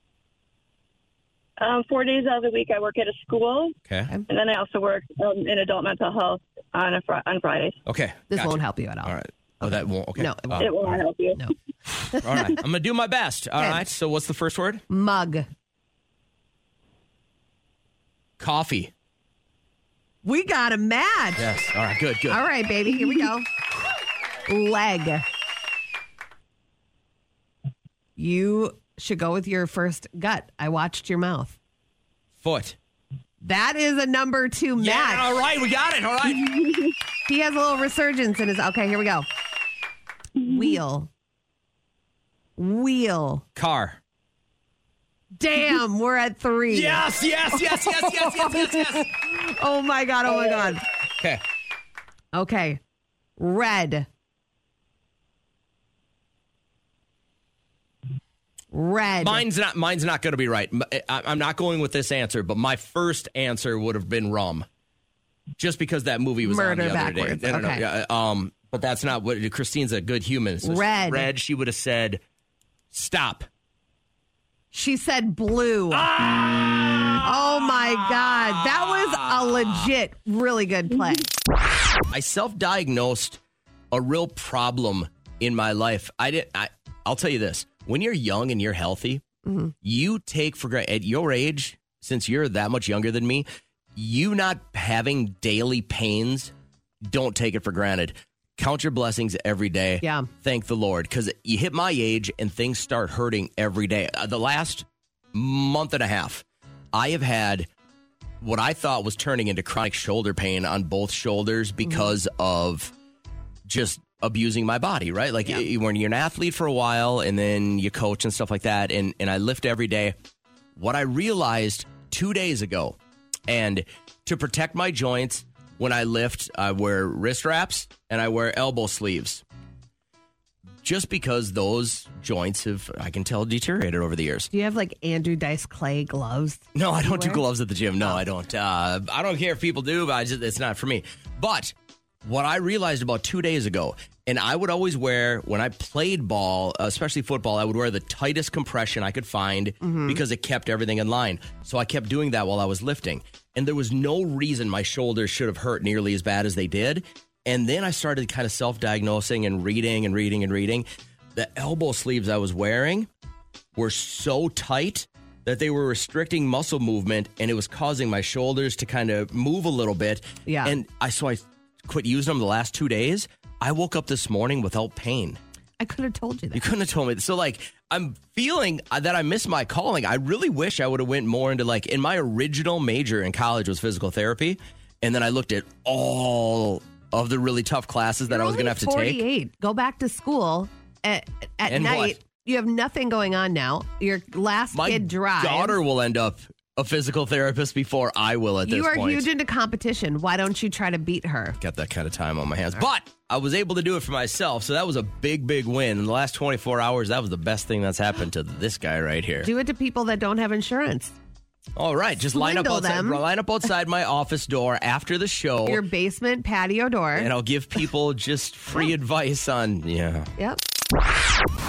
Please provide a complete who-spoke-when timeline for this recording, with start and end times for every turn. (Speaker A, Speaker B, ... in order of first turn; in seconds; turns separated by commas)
Speaker A: 1.6-3.7, Speaker A: 4.3-7.8, Speaker B: 7.8-11.0, Speaker C: 8.3-10.7, Speaker A: 10.6-11.4, Speaker C: 12.1-12.6, Speaker B: 12.2-14.8, Speaker C: 14.9-15.5, Speaker B: 18.4-18.9, Speaker C: 20.2-21.4, Speaker B: 21.4-22.4, Speaker C: 22.3-23.5, Speaker C: 24.5-25.2, Speaker C: 28.2-31.6, Speaker B: 32.4-32.8, Speaker C: 33.4-35.3, Speaker B: 34.8-36.6, Speaker C: 37.3-39.2, Speaker C: 40.4-41.1, Speaker C: 42.6-43.4, Speaker B: 43.5-44.0, Speaker C: 45.4-50.8, Speaker B: 46.7-49.1, Speaker C: 52.3-52.8, Speaker C: 53.4-54.1, Speaker C: 58.7-59.4, Speaker B: 59.2-64.7, Speaker B: 65.6-72.2, Speaker C: 66.4-67.8, Speaker C: 70.6-71.3, Speaker B: 72.9-73.5, Speaker C: 74.7-76.1, Speaker B: 75.9-79.9, Speaker C: 77.2-81.3, Speaker B: 82.1-83.4, Speaker B: 83.9-89.2, Speaker C: 89.4-89.7, Speaker B: 89.8-96.5, Speaker B: 97.1-107.7, Speaker C: 100.0-100.3, Speaker B: 108.4-112.9, Speaker B: 113.7-120.1, Speaker B: 120.8-123.0, Speaker B: 123.5-129.4, Speaker B: 130.8-134.5, Speaker C: 134.5-137.4, Speaker B: 136.7-141.7, Speaker B: 142.2-160.8, Speaker C: 149.8-150.2, Speaker B: 161.3-163.1, Speaker B: 163.8-175.4, Speaker C: 170.4-170.8, Speaker C: 175.8-176.7, Speaker B: 176.5-189.2, Speaker C: 188.3-195.8, Speaker B: 191.7-192.2, Speaker B: 194.7-199.3, Speaker C: 198.7-201.6, Speaker B: 201.6-209.5, Speaker C: 209.4-211.1, Speaker B: 211.8-215.8, Speaker C: 212.3-213.2, Speaker C: 215.7-217.3, Speaker B: 217.2-220.3